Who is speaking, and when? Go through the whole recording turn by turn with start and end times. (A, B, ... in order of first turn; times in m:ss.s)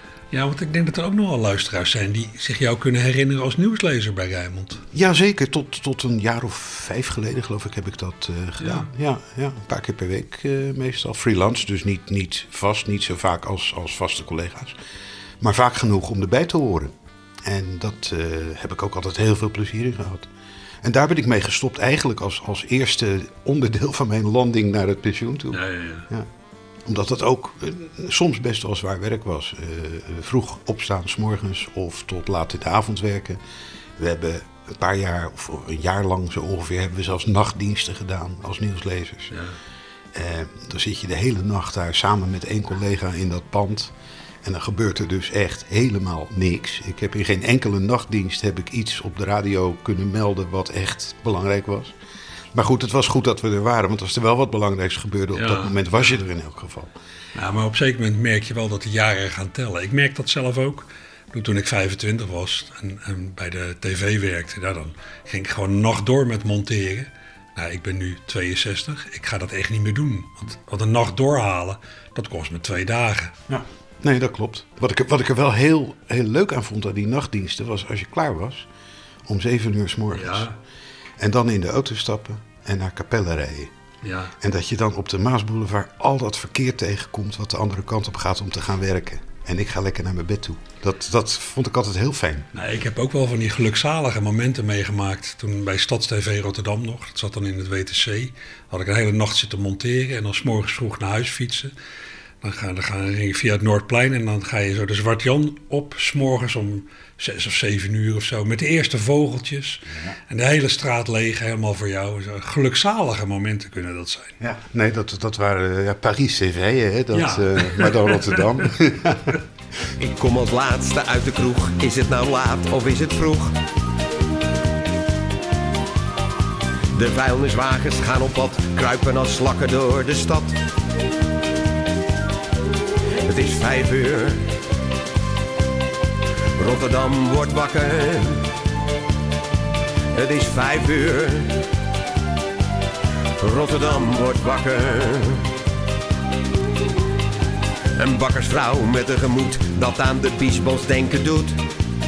0:00.3-0:04.8 A
0:04.9-0:14.8 B
0:08.6-0:08.9 A
0:15.4-0:16.9 B
0:17.4-0:20.3 B
0:20.8-0:26.3 B
0:25.5-0:26.1 A
0:26.8-0:33.4 B
0:34.0-0:39.4 B
0:39.3-0:39.6 A
0:40.1-0:43.9 B
0:44.4-0:52.0 B
0:52.5-0:56.9 B
0:55.4-0:56.1 A
0:57.4-1:13.4 A
1:13.5-1:18.7 B
1:19.3-1:20.5 B
1:20.1-1:20.6 A
1:21.2-1:23.7 B
1:24.0-1:24.4 A
1:24.4-1:32.5 B
1:32.5-1:41.7 A
1:42.4-1:54.4 A
1:54.4-1:59.4 B
1:57.1-1:58.4 A
2:00.0-2:03.6 C
2:07.0-2:10.6 C
2:13.2-2:14.5 C
2:16.6-2:18.5 C
2:20.1-2:21.6 C
2:23.4-2:25.4 C
2:28.0-2:31.6 C